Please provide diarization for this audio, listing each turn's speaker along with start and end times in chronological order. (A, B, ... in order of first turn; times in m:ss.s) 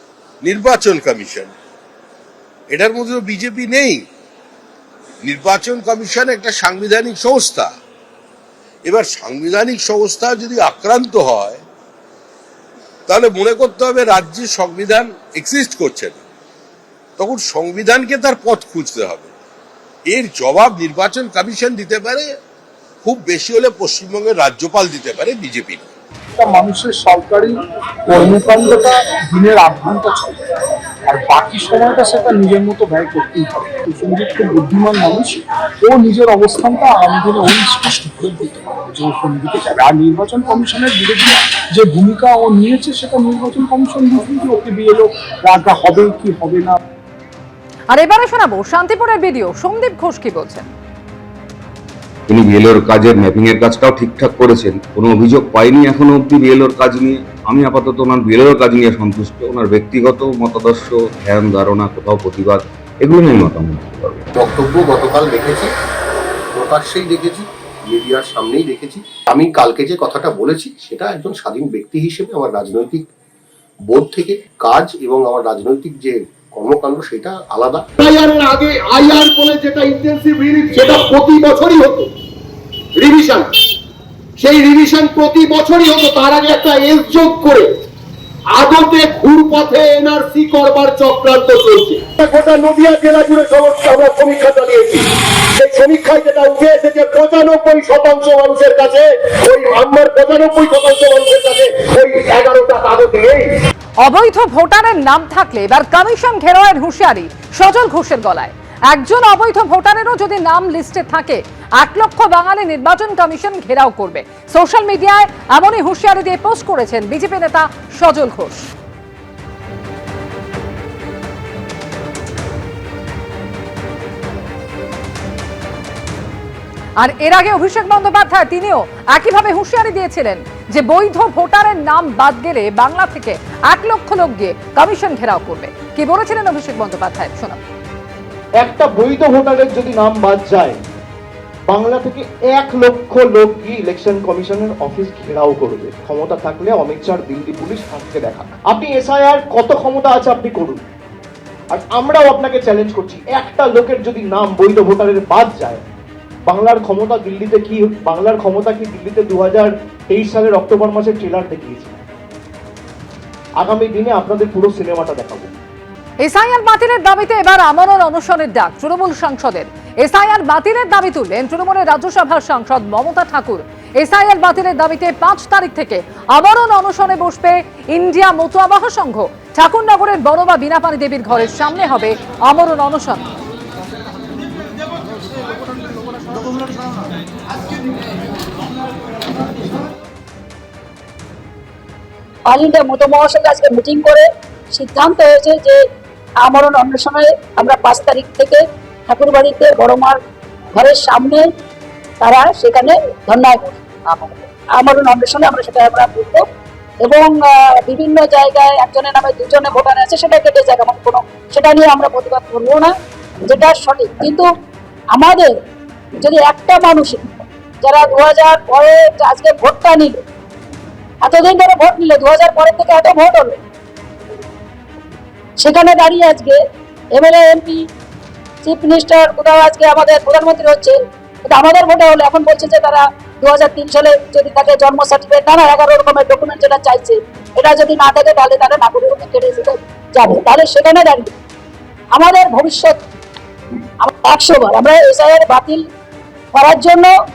0:00.4-0:01.5 A
0:02.7-0:04.0 A
0:05.2-0:07.7 A
0:08.8-0:11.6 A
0:13.1-0:16.2 A
0:17.2-0:19.3 A
0:20.1-0:22.3 A
0:23.0-0:25.9 A
0:26.4-0:30.4 B
0:31.1-0:46.8 B
0:47.9-0:50.7 C
0:52.3-1:04.2 D
1:04.3-1:05.7 E
1:06.5-1:13.0 E
1:13.8-1:17.8 E
1:18.0-1:22.1 F
1:23.0-1:23.5 F
1:24.4-1:27.7 F
1:28.5-1:43.5 F
1:44.0-1:58.7 C
2:07.0-2:17.6 C
2:18.6-2:20.8 G
2:21.6-2:30.8 G
2:31.7-2:35.8 G
2:36.4-2:42.0 G
2:43.6-2:45.5 G
2:46.2-3:03.2 C
3:12.5-3:15.8 H
3:16.4-3:20.2 H
3:20.8-3:21.4 H
3:22.2-3:26.4 H
3:27.0-3:32.9 H
3:33.4-3:34.5 H
3:35.1-3:35.5 H
3:36.2-3:37.3 H
3:37.8-3:40.2 H
3:41.2-3:43.5 H
3:45.6-3:46.6 H
3:47.2-3:47.8 H
3:48.6-3:51.0 H
3:51.5-4:01.3 H
4:02.1-4:03.0 H
4:04.0-4:05.8 H
4:06.5-4:07.1 H